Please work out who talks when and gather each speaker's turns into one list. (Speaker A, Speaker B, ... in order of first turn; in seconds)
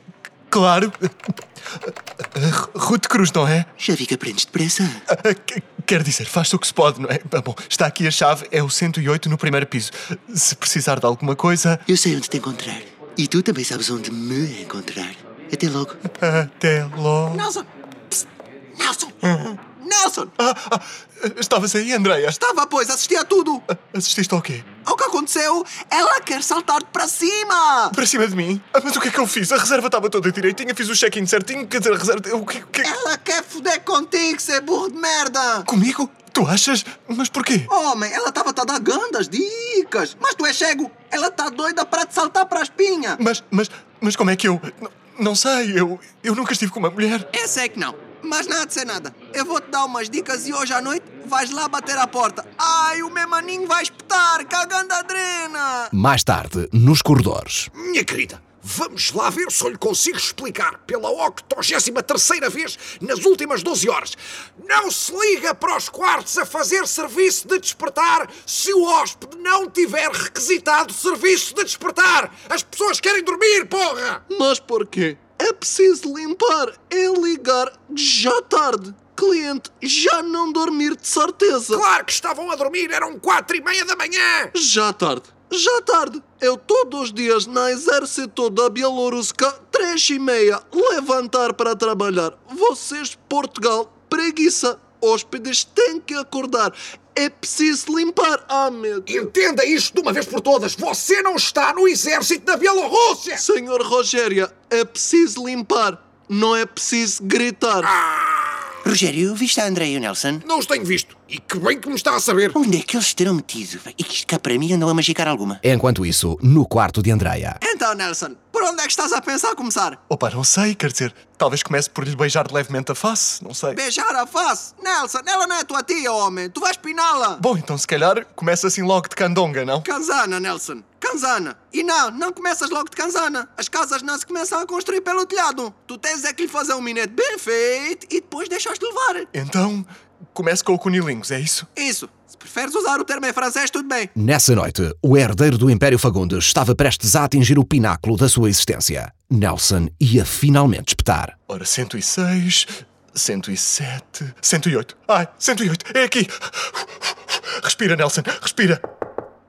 Speaker A: 0.5-3.7, 5.1-11.8, 16.1-17.5, 19.2-19.6, 20.4-22.4, 23.7-24.7, 27.9-32.9, 35.7-37.7, 43.2-47.3, 120.1-123.8, 127.4-129.9, 139.3-141.7, 151.5-158.8
Speaker B: 3.8-5.0, 11.9-16.0, 108.8-110.4, 112.5-115.6
Speaker C: 17.3-18.2, 18.8-19.1, 19.7-20.3, 22.4-23.6, 24.8-28.0, 32.8-35.7, 37.7-43.2, 47.3-55.9, 74.3-81.8, 84.5-99.3, 103.4-107.9, 117.6-120.0, 123.7-127.4, 129.8-139.3, 141.7-144.1
Speaker D: 55.9-57.7, 115.6-117.6, 144.1-151.3
Speaker E: 57.7-74.2, 81.7-84.5, 99.0-103.4, 107.8-108.8, 110.4-112.5